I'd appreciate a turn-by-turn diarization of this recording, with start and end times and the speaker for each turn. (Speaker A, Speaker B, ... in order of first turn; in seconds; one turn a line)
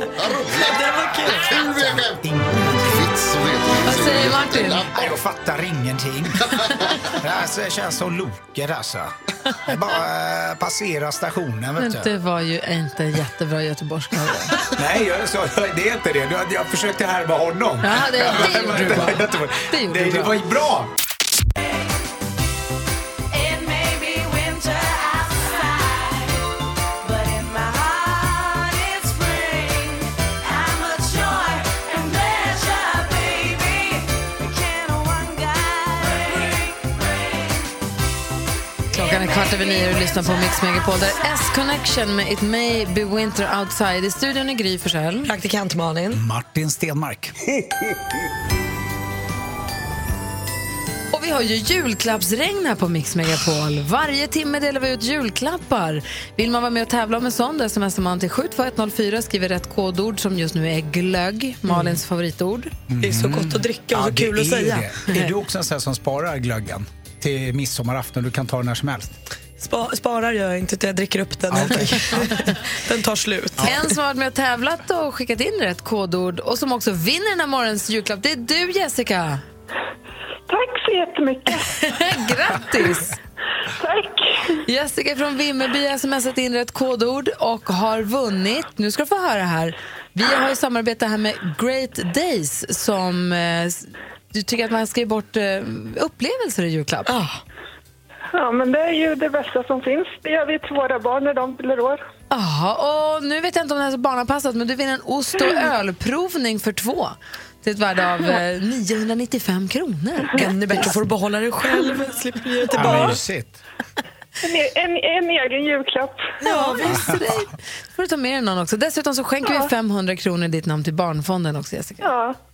Speaker A: 0.2-0.8
Speaker B: 0.6-1.6
Speaker A: 1.4-5.2
Speaker C: 1.6-3.1
Speaker D: 3.9-4.8
Speaker C: 4.9-12.1
Speaker D: 11.8-14.7
Speaker C: 14.7-20.9
Speaker D: 17.8-20.4
Speaker E: 23.6-25.6
Speaker E: 27.3-29.6
Speaker E: 30.9-32.1
Speaker E: 33.4-33.7
Speaker E: 34.6-36.1
Speaker D: 38.9-45.3
Speaker B: 45.2-46.2
Speaker C: 46.1-47.3
Speaker D: 51.1-62.7
Speaker C: 62.9-69.2
Speaker B: 63.0-65.0
Speaker B: 69.6-73.9
Speaker C: 71.5-72.4
Speaker D: 73.6-79.4
Speaker F: 80.5-81.4
Speaker D: 81.7-83.1
Speaker D: 84.7-97.1
Speaker B: 97.1-97.4
Speaker F: 98.3-102.0
Speaker D: 102.3-110.9
Speaker B: 110.3-113.2
Speaker C: 112.7-113.6
Speaker F: 114.5-116.2
Speaker B: 116.4-117.0
Speaker D: 116.4-122.1